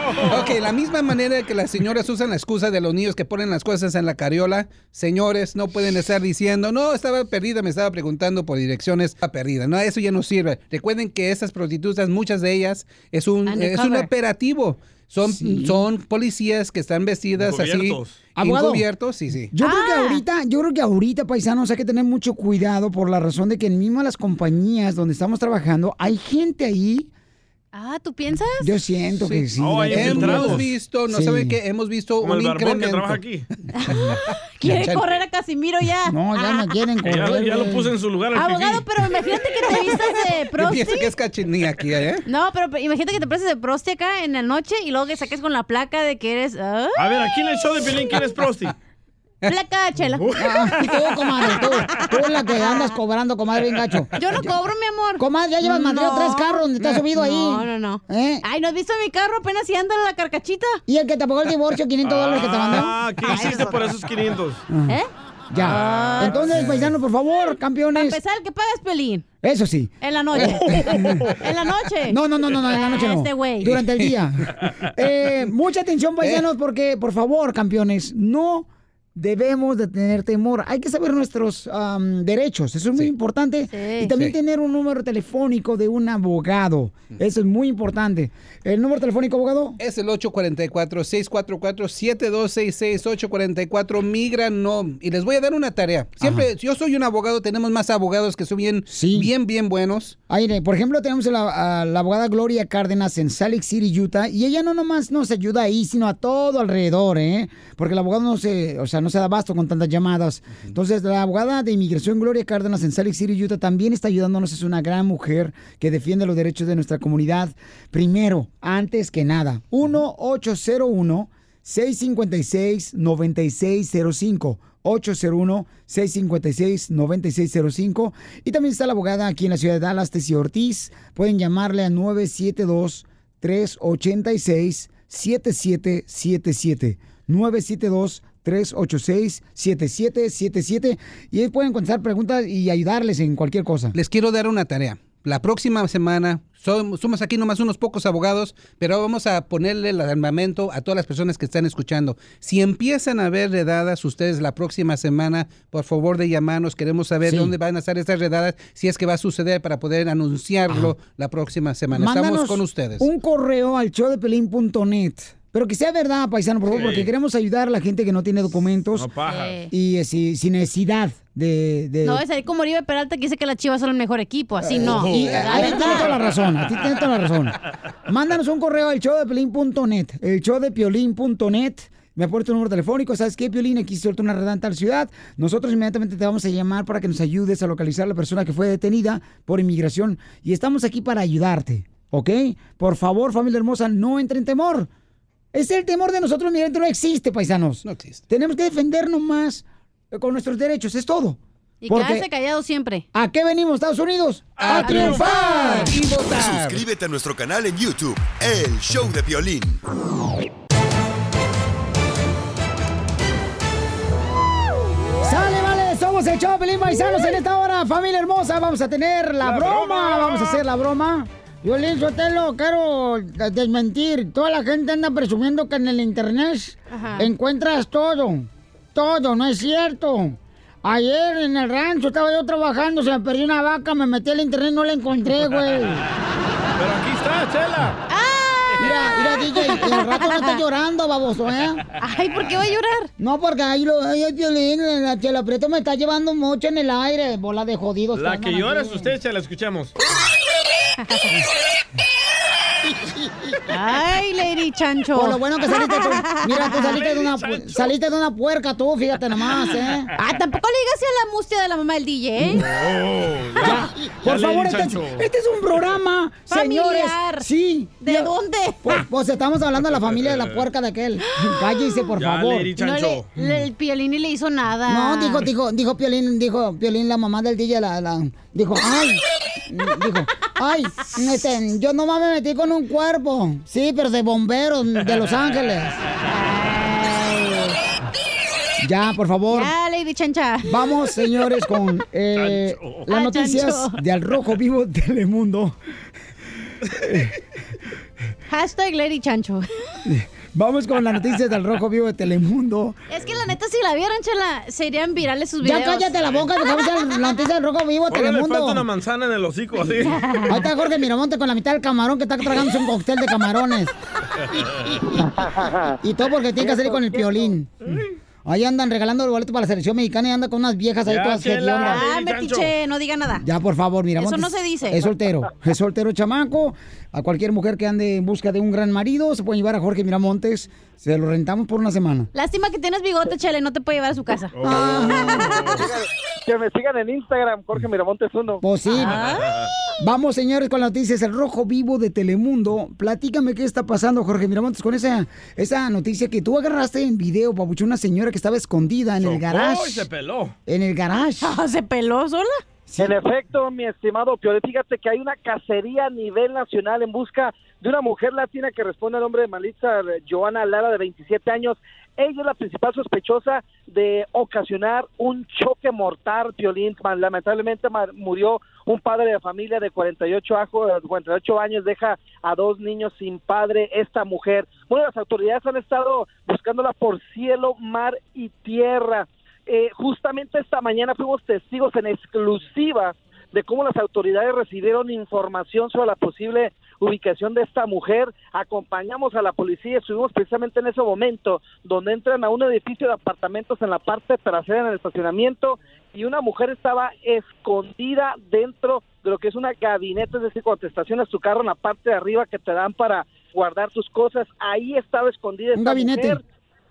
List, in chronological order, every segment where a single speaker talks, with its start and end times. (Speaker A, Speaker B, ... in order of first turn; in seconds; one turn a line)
Speaker A: 0.2-19.5
Speaker B: 13.5-14.1
Speaker C: 15.3-15.8
Speaker D: 17.4-18.2
Speaker C: 18.4-18.9
Speaker C: 19.5-27.1
Speaker B: 19.6-20.2
Speaker B: 27.7-28.7
Speaker C: 28.6-31.6
Speaker A: 29.2-35.1
Speaker D: 29.6-30.7
Speaker D: 32.2-33.5
Speaker B: 33.8-36.7
Speaker C: 36.1-37.9
Speaker D: 37.0-39.2
Speaker B: 38.3-41.1
Speaker A: 39.9-42.2
Speaker B: 42.3-47.0
Speaker D: 47.0-48.7
Speaker B: 49.5-50.4
Speaker C: 50.4-54.1
Speaker B: 51.6-52.1
Speaker B: 54.2-60.8
Speaker C: 55.2-58.4
Speaker C: 60.9-63.0
Speaker D: 62.0-64.6
Speaker B: 63.3-63.8
Speaker C: 64.7-65.0
Speaker C: 65.5-68.2
Speaker B: 65.6-66.4
Speaker A: 66.4-66.9
Speaker B: 67.9-69.2
Speaker C: 69.4-69.9
Speaker B: 70.0-73.8
Speaker D: 70.9-71.3
Speaker C: 72.1-89.8
Speaker A: 73.7-74.2
Speaker B: 83.7-84.1
Speaker A: 89.8-100.2
Speaker C: 98.9-99.3
Speaker C: 100.3-144.0
Speaker A: 143.9-163.1
Speaker C: 157.3-157.5
Speaker C: 161.9-169.1
Speaker D: 166.7-167.1
Speaker D: 168.9-169.6
Speaker B: 169.3-169.7
Speaker C: 169.7-172.2
Speaker B: 172.0-176.1
Speaker C: 174.6-177.6
Speaker D: 174.9-176.3
Speaker C: 178.1-194.9
Speaker C: 195.5-202.3
Speaker A: 197.8-198.2
Speaker B: 201.8-203.1
Speaker C: 203.1-205.9
Speaker D: 204.6-205.4
Speaker A: 204.6-206.8
Speaker B: 204.7-206.0
Speaker E: 206.3-209.8
Speaker C: 215.2-236.1
Speaker D: 219.4-220.6
Speaker B: 226.9-227.3
Speaker D: 236.8-238.0
Speaker B: 238.1-240.6
Speaker C: 238.8-241.8
Speaker D: 238.8-239.1
Speaker B: 242.0-243.1
Speaker C: 243.2-249.1
Speaker D: 248.1-249.9
Speaker B: 253.7-256.8
Speaker C: 255.2-260.1
Speaker D: 256.8-258.0
Speaker B: 260.2-262.7
Speaker D: 262.6-265.3
Speaker C: 263.6-272.7
Speaker B: 266.5-267.5
Speaker B: 268.0-269.0
Speaker D: 269.9-270.7
Speaker D: 272.2-273.3
Speaker B: 272.8-275.5
Speaker C: 274.9-286.0
Speaker B: 286.2-287.8
Speaker C: 288.8-289.7
Speaker B: 289.5-290.7
Speaker C: 290.7-295.8
Speaker D: 292.3-293.1
Speaker B: 293.1-294.0
Speaker C: 297.0-297.3
Speaker B: 298.5-299.7
Speaker C: 300.1-303.0
Speaker B: 303.1-306.1
Speaker C: 305.6-308.9
Speaker D: 308.1-310.2
Speaker B: 310.1-310.5
Speaker C: 310.5-313.9
Speaker C: 316.0-317.7
Speaker C: 318.4-322.0
Speaker D: 321.1-322.7
Speaker B: 321.8-323.4
Speaker C: 323.4-332.3
Speaker B: 324.2-325.0
Speaker B: 332.3-334.7
Speaker D: 334.6-335.8
Speaker C: 334.6-335.6
Speaker B: 335.2-335.8
Speaker F: 336.5-338.6
Speaker C: 338.6-339.2
Speaker B: 338.9-339.5
Speaker D: 339.0-339.7
Speaker C: 340.0-350.1
Speaker D: 349.2-350.6
Speaker C: 350.7-351.6
Speaker B: 351.4-352.6
Speaker C: 352.9-353.1
Speaker F: 353.0-406.4
Speaker C: 405.8-406.4